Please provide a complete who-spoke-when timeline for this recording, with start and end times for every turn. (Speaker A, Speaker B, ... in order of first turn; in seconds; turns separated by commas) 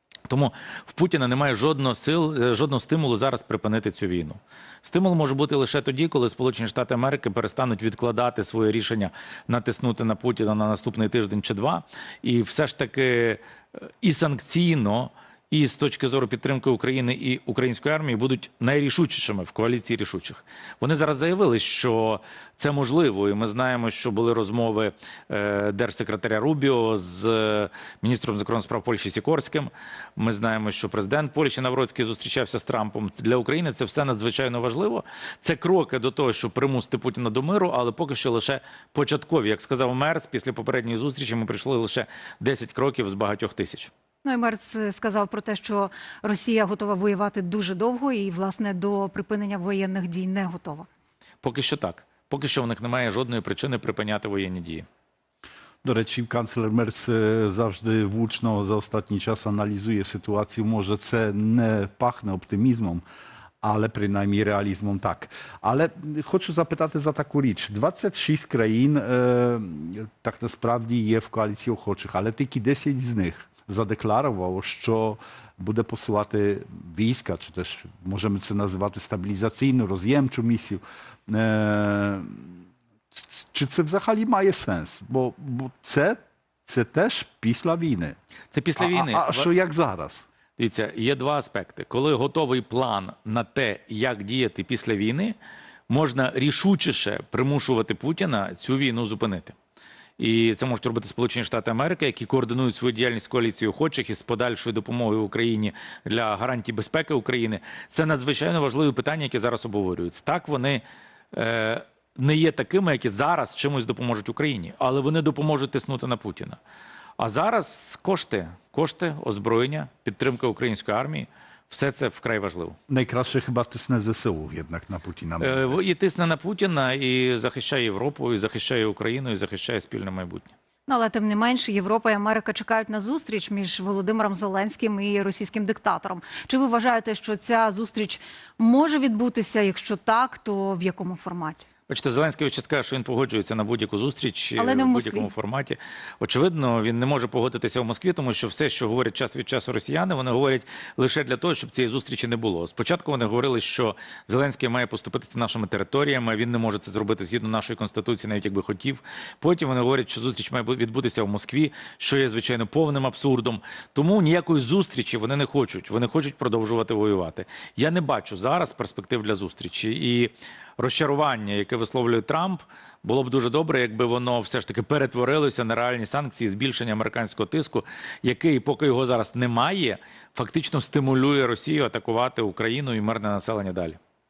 Speaker A: 0.3-43.9, Speaker B: 44.2-50.9, Speaker A: 51.4-54.9, Speaker C: 55.8-63.0, Speaker C: 63.6-82.6, Speaker C: 83.1-88.2, Speaker A: 88.5-89.5, Speaker C: 88.8-90.3, Speaker A: 90.6-95.3, Speaker A: 95.9-99.5, Speaker A: 100.2-116.6, Speaker A: 117.2-122.8, Speaker C: 122.9-125.8, Speaker A: 125.4-130.5, Speaker B: 130.9-141.6, Speaker A: 141.9-184.0, Speaker B: 144.6-145.3